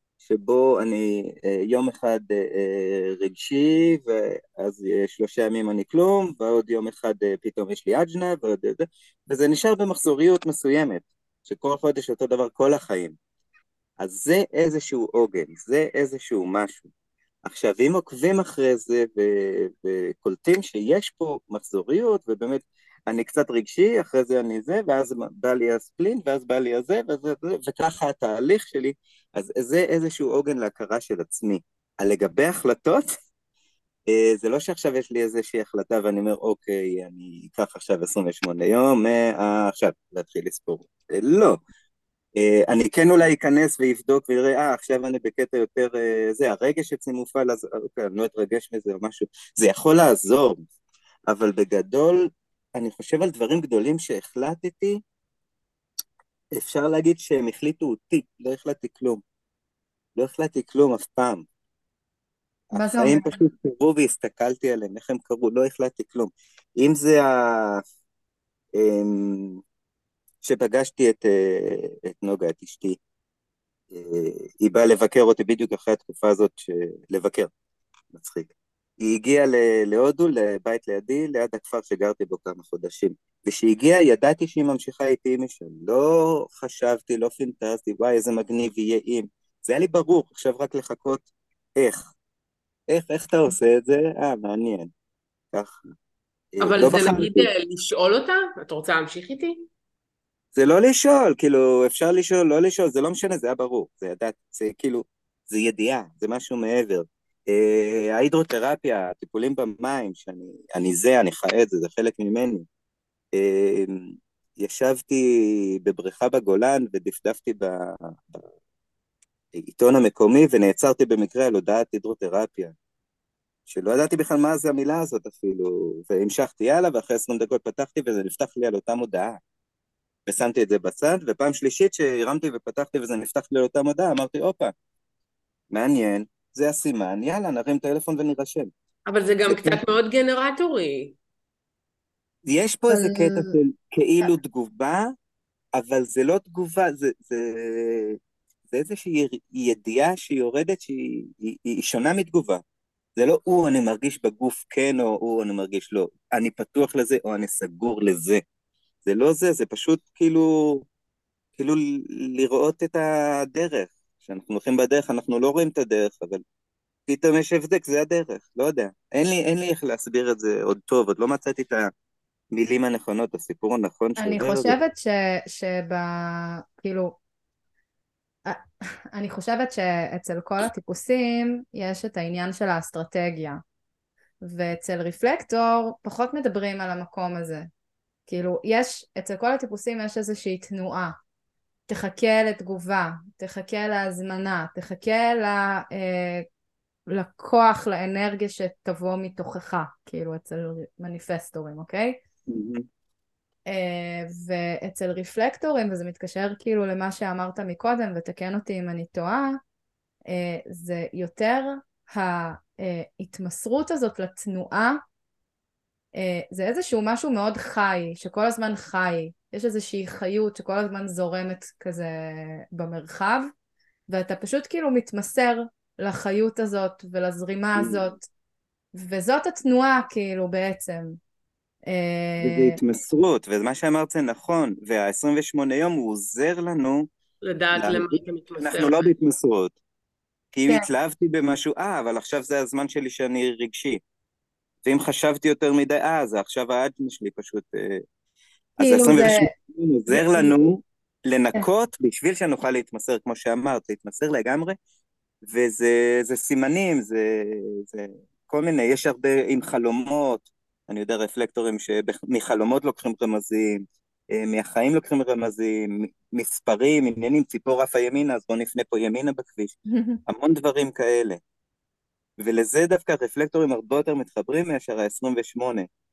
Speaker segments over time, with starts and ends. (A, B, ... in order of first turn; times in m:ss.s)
0:00.2-0:13.2 A
0:14.0-0:16.9 A
0:17.4-0:33.1 A
0:34.1-0:41.6 A
0:42.4-0:50.6 A
0:51.3-0:55.0 A
0:56.6-0:59.2 A
1:00.2-1:01.4 A
1:02.7-1:07.8 A
1:02.7-1:03.4 B
1:08.8-1:09.6 A
1:10.4-1:13.0 A
1:13.9-1:17.5 A
1:18.1-1:32.1 A
1:32.9-1:34.9 A
1:35.5-1:35.8 A
1:36.6-1:37.5 A
1:36.6-1:39.6 C
1:40.6-1:52.7 A
1:53.4-1:58.5 A
1:59.6-2:02.8 A
2:03.7-2:09.4 A
2:10.3-2:14.7 A
2:15.7-2:18.7 A
2:19.1-2:21.2 C
2:19.5-2:19.8 A
2:22.5-2:25.1 A
2:22.9-2:23.6 B
2:25.8-2:28.2 A
2:28.7-2:32.6 A
2:33.2-2:38.4 A
2:39.0-2:40.9 A
2:41.6-2:46.4 A
2:47.1-2:51.9 A
2:52.5-2:54.8 A
2:54.2-2:57.2 B
2:59.1-3:03.6 B
3:04.4-3:07.7 B
3:08.3-3:11.2 B
3:11.9-3:16.5 B
3:17.1-3:22.2 B
3:22.5-3:22.9 A
3:23.7-3:29.6 B
3:30.3-3:35.0 B
3:36.2-3:43.5 B
3:44.1-3:48.2 B
3:47.8-3:48.1 A
3:49.0-3:51.2 B
3:51.9-3:52.8 B
3:52.4-3:57.1 A
3:57.4-3:59.1 C
3:57.8-3:59.8 A
4:00.5-4:04.0 A
4:04.8-4:08.0 A
4:08.8-4:14.8 A
4:08.8-4:09.5 B
4:10.1-4:10.5 B
4:15.4-4:29.8 A
4:29.9-4:30.2 B
4:30.3-4:31.4 A
4:32.4-4:35.9 A